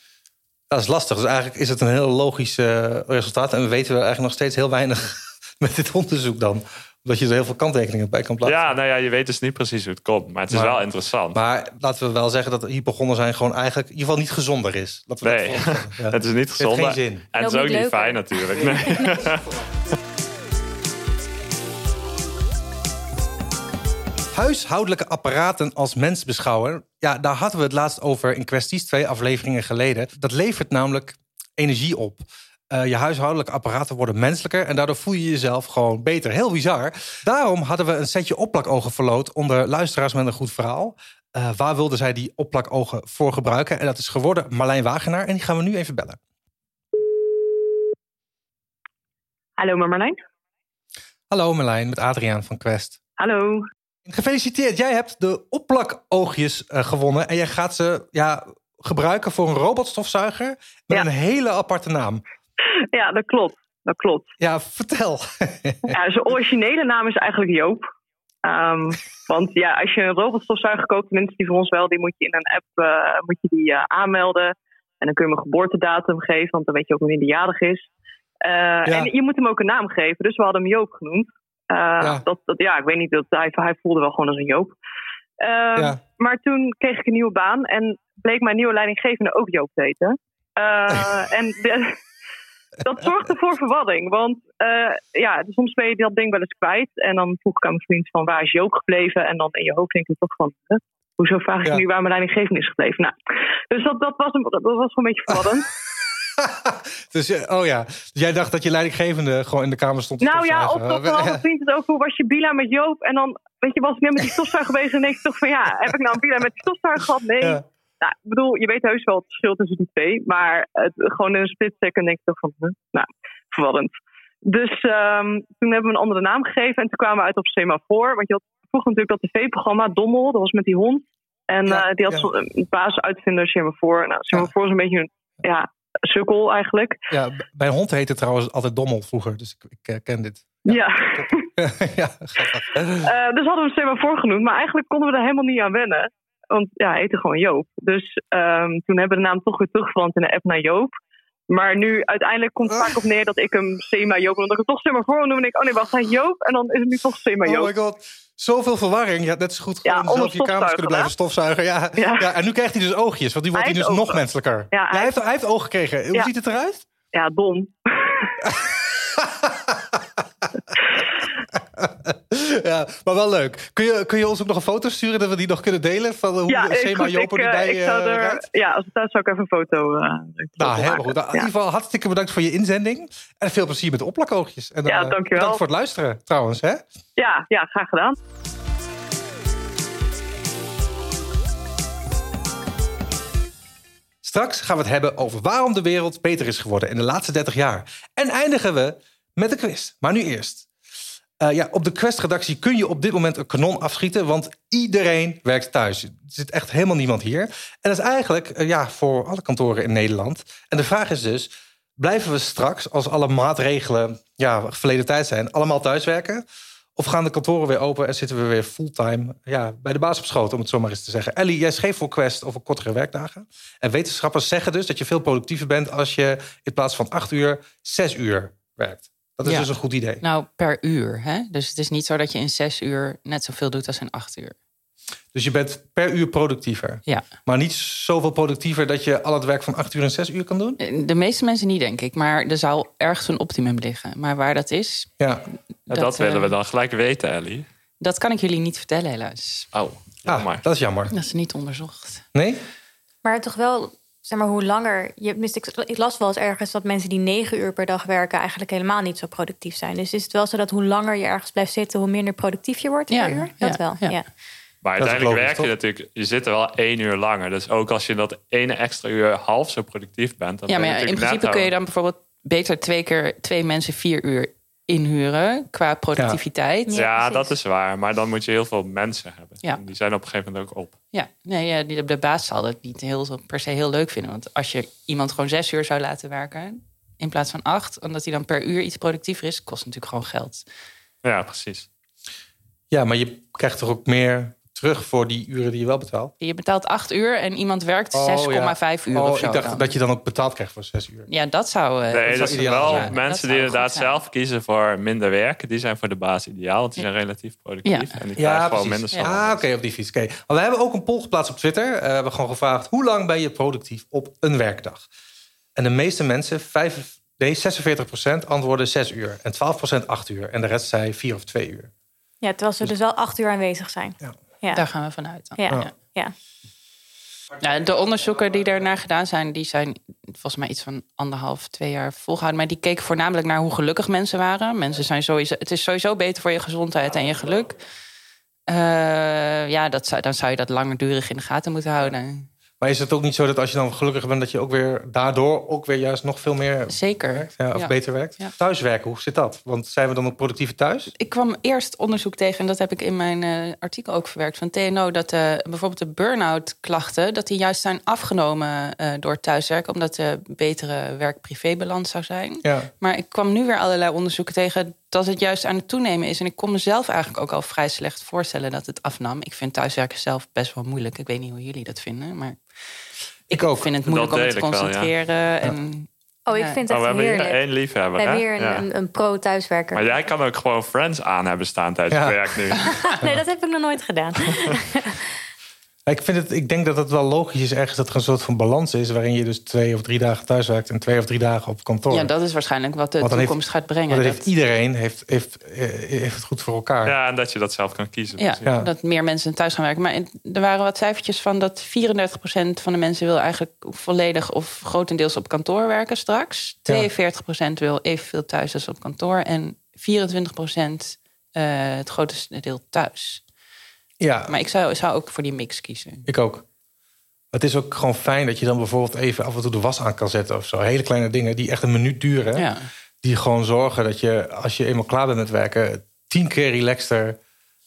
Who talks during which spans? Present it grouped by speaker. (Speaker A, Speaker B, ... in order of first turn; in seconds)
Speaker A: 0.7-8.7, 10.5-10.8, 11.3-17.3, 24.3-46.2, 51.3-53.0, 54.0-62.2, 64.4-66.0, 78.8-79.1, 90.9-91.1, 106.4-111.4, 131.7-132.3, 137.1-143.1, 152.7-152.9, 157.4-166.8, 168.4-170.0, 171.6-178.4, 180.6-186.8, 194.2-200.7, 201.4-216.4, 216.9-230.2, 235.3-240.8, 245.2-245.4, 250.2-251.1, 252.3-252.6, 265.0-265.7, 292.9-296.3, 298.1-301.3, 302.3-303.1, 308.4-315.1, 315.8-321.9, 342.8-351.1, 362.6-362.9, 373.5-373.9, 382.1-382.5, 386.1-392.3, 393.2-393.6, 394.1-397.1, 414.2-414.6, 416.2-416.6, 417.5-422.7, 423.2-427.4
Speaker B: 8.4-11.4, 15.2-19.4, 245.9-247.7, 249.7-250.6, 264.8-271.7, 276.9-280.9, 291.2-291.9, 302.1-309.6, 374.0-375.1, 376.9-378.9, 379.9-383.1, 397.0-398.6
Speaker C: 17.4-19.3, 253.2-264.3, 276.9-277.5, 322.4-324.8, 325.5-326.3, 376.5-377.6, 378.1-380.1, 382.8-385.2
Speaker D: 49.6-50.2, 53.2-53.6, 62.9-64.3, 65.9-67.8, 68.4-77.8, 78.4-84.8, 85.4-92.0, 92.8-103.1, 103.7-105.7, 110.2-123.9, 124.4-137.0, 140.7-141.4, 143.0-150.9, 151.5-157.7, 159.8-161.1, 162.0-162.3, 163.5-164.2, 164.7-165.2, 167.1-168.4, 176.5-181.5, 184.9-185.6, 187.2-188.2
Speaker E: 229.4-234.6, 240.8-245.1, 245.9-246.5, 248.0-249.7, 251.1-252.2, 263.1-264.2, 270.7-277.0, 281.1-290.6, 296.4-299.9, 301.3-304.1, 307.8-308.2, 324.7-325.6, 327.6-337.8, 338.7-342.5, 346.9-348.5, 351.1-372.6, 373.5-376.8, 392.1-394.5, 398.4-413.4, 414.5-416.3, 422.5-422.9